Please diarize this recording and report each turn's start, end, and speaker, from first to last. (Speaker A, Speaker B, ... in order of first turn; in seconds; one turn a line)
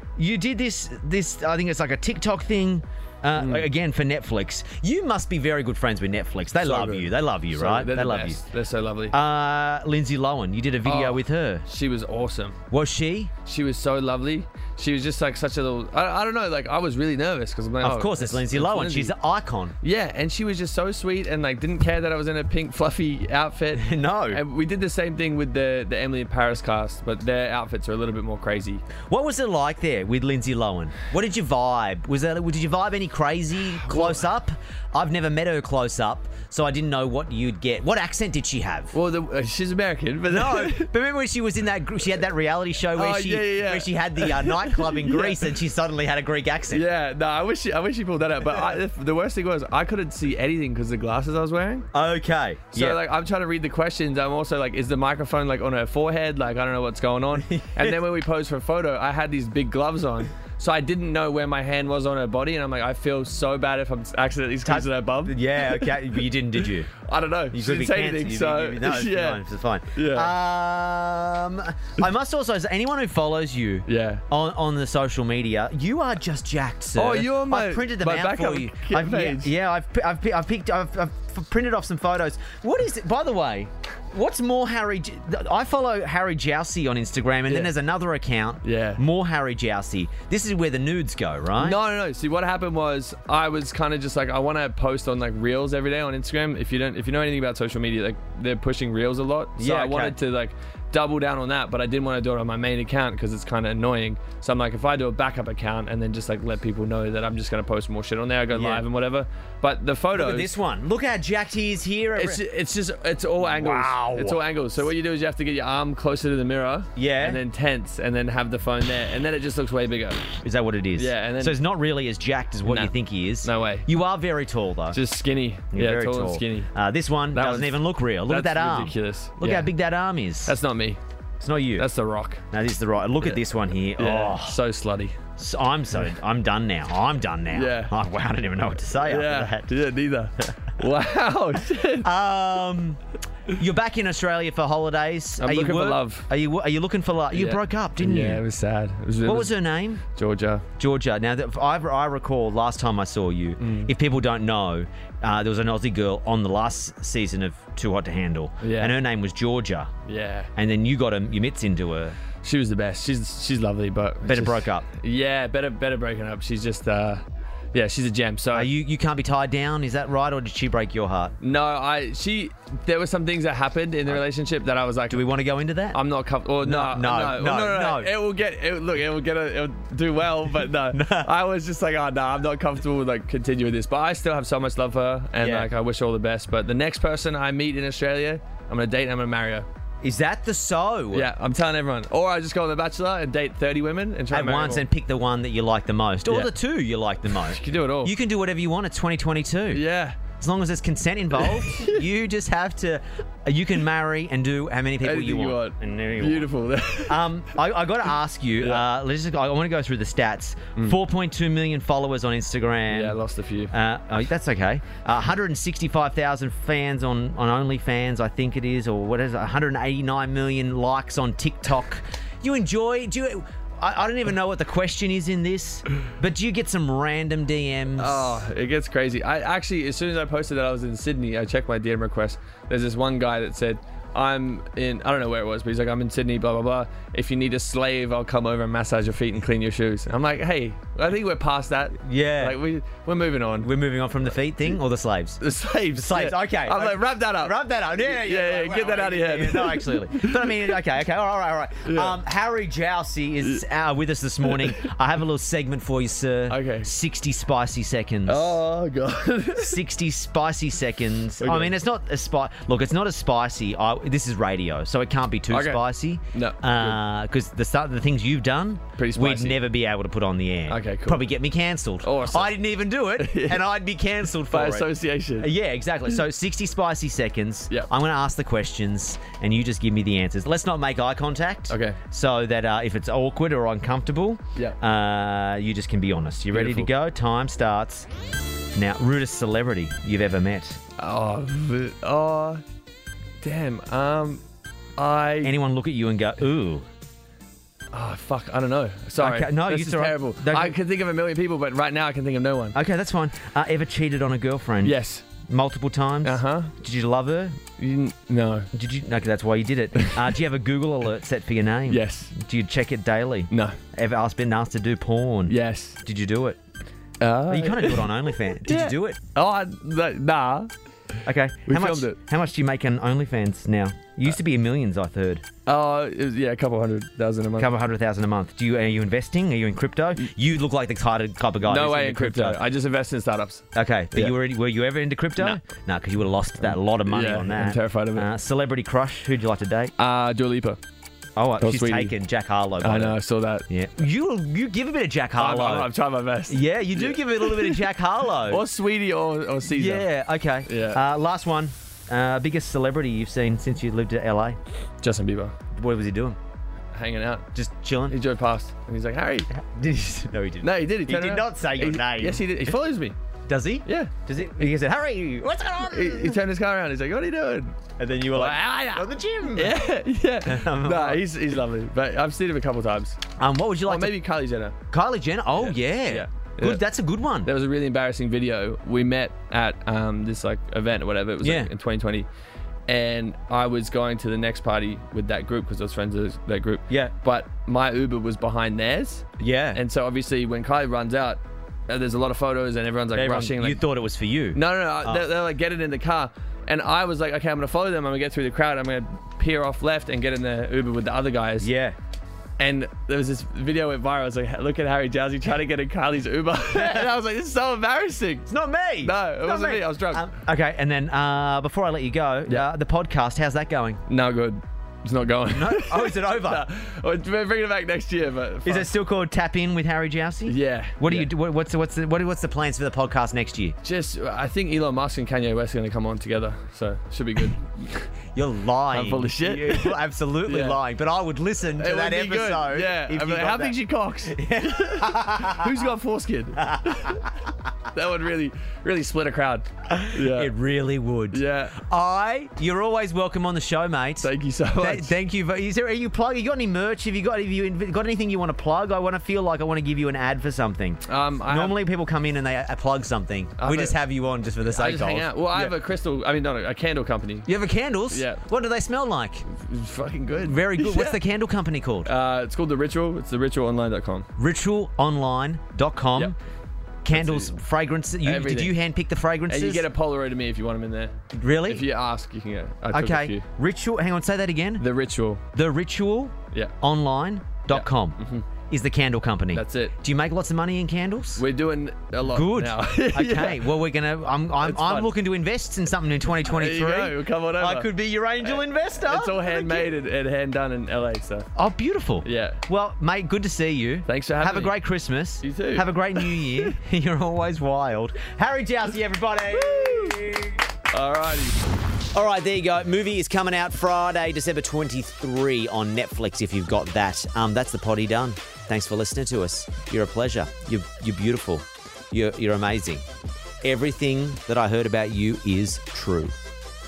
Speaker A: 0.2-8.4
Speaker B: 3.4-3.7
Speaker B: 6.6-9.2
Speaker A: 9.1-11.6
Speaker B: 10.8-12.6
Speaker A: 12.7-13.3
Speaker B: 13.4-19.1
Speaker A: 17.8-19.7
Speaker B: 19.8-28.8
Speaker A: 23.7-24.4
Speaker A: 29.1-38.9
Speaker B: 33.8-34.3
Speaker B: 38.9-40.9
Speaker A: 40.3-46.8
Speaker B: 42.9-45.5
Speaker B: 46.7-51.9
Speaker A: 51.9-53.0
Speaker B: 52.7-66.0
Speaker A: 57.4-58.0
Speaker A: 64.6-66.9
Speaker B: 67.0-69.4
Speaker A: 67.5-91.8
Speaker B: 69.9-70.3
Speaker B: 73.8-74.2
Speaker B: 76.9-79.5
Speaker B: 88.6-89.0
Speaker B: 91.6-110.5
Speaker A: 99.6-100.2
Speaker A: 108.5-108.8
Speaker A: 110.1-112.4
Speaker B: 112.2-120.2
Speaker A: 113.4-114.4
Speaker A: 117.0-117.4
Speaker A: 120.4-125.0
Speaker B: 120.9-121.6
Speaker B: 122.6-123.9
Speaker B: 124.9-126.7
Speaker A: 125.7-130.5
Speaker B: 127.3-129.7
Speaker B: 130.4-131.0
Speaker A: 131.4-131.9
Speaker B: 131.8-132.4
Speaker A: 132.5-134.6
Speaker B: 134.0-135.2
Speaker A: 135.4-139.7
Speaker B: 137.5-137.9
Speaker B: 139.0-142.1
Speaker A: 142.0-143.0
Speaker A: 143.5-148.4
Speaker B: 145.4-146.3
Speaker B: 147.3-150.6
Speaker A: 149.2-150.0
Speaker A: 150.8-159.9
Speaker B: 153.6-153.9
Speaker B: 158.6-159.0
Speaker B: 160.1-160.5
Speaker A: 160.5-162.2
Speaker B: 162.4-168.7
Speaker A: 164.2-164.8
Speaker A: 168.5-171.3
Speaker B: 171.4-175.2
Speaker A: 175.1-176.0
Speaker B: 175.9-189.7
Speaker A: 176.6-178.1
Speaker A: 180.9-181.3
Speaker A: 185.4-185.7
Speaker A: 190.0-191.3
Speaker B: 191.1-194.8
Speaker A: 194.3-199.8
Speaker B: 197.3-198.1
Speaker B: 199.7-200.2
Speaker A: 200.4-206.5
Speaker B: 201.4-202.0
Speaker B: 205.0-207.2
Speaker A: 207.1-213.2
Speaker B: 208.6-208.8
Speaker B: 212.9-213.7
Speaker A: 213.7-228.4
Speaker B: 228.0-244.8
Speaker A: 242.0-242.6
Speaker A: 243.6-245.4
Speaker B: 245.4-250.7
Speaker A: 245.9-258.6
Speaker B: 251.8-252.2
Speaker B: 256.5-256.9
Speaker B: 258.3-259.8
Speaker A: 259.6-288.1
Speaker B: 261.4-261.8
Speaker B: 265.5-267.0
Speaker B: 269.0-269.6
Speaker B: 270.7-271.2
Speaker B: 272.0-272.5
Speaker B: 273.2-273.6
Speaker B: 274.5-275.5
Speaker B: 281.7-282.0
Speaker B: 286.5-286.9
Speaker A: 288.7-290.8
Speaker B: 291.0-292.6
Speaker B: 293.4-294.4
Speaker B: 295.0-295.5
Speaker A: 295.4-296.8
Speaker B: 297.9-302.8
Speaker A: 299.2-300.7
Speaker A: 302.7-307.6
Speaker B: 304.8-305.2
Speaker B: 306.2-306.7
Speaker B: 307.8-308.7
Speaker A: 308.7-316.6
Speaker B: 311.9-312.3
Speaker B: 313.5-313.8
Speaker B: 315.5-316.0
Speaker B: 317.2-318.1
Speaker A: 317.5-319.2
Speaker B: 318.6-320.7
Speaker A: 321.2-325.4
Speaker B: 321.6-322.2
Speaker B: 325.6-327.7
Speaker A: 327.6-332.6
Speaker B: 331.6-334.4
Speaker A: 333.7-339.9
Speaker B: 336.6-338.3
Speaker B: 340.0-340.8
Speaker A: 341.4-343.2
Speaker B: 341.6-342.1
Speaker B: 342.8-343.6
Speaker A: 343.7-345.9
Speaker B: 345.4-347.8
Speaker A: 346.5-348.6
Speaker B: 348.5-350.1
Speaker A: 349.7-354.6
Speaker B: 350.6-351.0
Speaker B: 355.0-355.5
Speaker A: 355.8-356.4
Speaker B: 356.9-357.4
Speaker A: 357.5-358.1
Speaker B: 358.1-359.5
Speaker A: 359.5-362.5
Speaker B: 360.6-363.1
Speaker A: 363.5-366.4
Speaker B: 363.8-364.7
Speaker B: 365.9-367.7
Speaker A: 368.0-369.8
Speaker B: 368.3-373.2
Speaker A: 370.4-371.2
Speaker A: 373.4-374.2
Speaker B: 373.9-374.7
Speaker A: 374.9-377.5
Speaker B: 375.6-376.8
Speaker B: 377.4-382.3
Speaker A: 381.4-381.7
Speaker B: 382.9-393.8
Speaker A: 389.4-389.8
Speaker A: 393.1-395.3
Speaker B: 394.5-401.7
Speaker A: 401.6-401.9
Speaker B: 402.6-408.5
Speaker A: 406.7-407.1
Speaker A: 408.4-414.0
Speaker B: 409.0-410.2
Speaker B: 414.1-418.9
Speaker A: 415.5-416.6
Speaker A: 418.6-423.8
Speaker B: 420.4-421.3
Speaker B: 423.8-428.1
Speaker A: 428.3-435.8
Speaker B: 428.9-430.8
Speaker B: 431.8-437.3
Speaker A: 436.6-437.3
Speaker B: 437.9-440.5
Speaker A: 439.9-455.8
Speaker B: 441.3-441.8
Speaker B: 444.2-445.1
Speaker B: 451.1-451.8
Speaker B: 453.6-454.0
Speaker B: 454.6-457.5
Speaker A: 457.4-459.4
Speaker B: 458.1-458.4
Speaker B: 459.5-461.2
Speaker A: 460.4-462.1
Speaker B: 462.0-464.2
Speaker A: 464.4-466.3
Speaker A: 467.0-469.9
Speaker B: 467.1-467.5
Speaker B: 468.2-468.8
Speaker B: 469.5-473.4
Speaker A: 471.3-471.9
Speaker A: 472.9-474.9
Speaker B: 474.8-475.4
Speaker A: 475.5-478.2
Speaker B: 477.7-478.4
Speaker A: 478.7-481.4
Speaker B: 479.5-479.9
Speaker B: 481.4-483.7
Speaker A: 482.2-489.9
Speaker B: 484.6-485.1
Speaker B: 486.4-491.5
Speaker A: 491.6-500.6
Speaker B: 492.2-492.6
Speaker B: 494.0-494.8
Speaker B: 495.4-496.7
Speaker B: 499.5-500.3
Speaker B: 500.9-501.6
Speaker A: 502.1-513.0
Speaker A: 513.6-516.3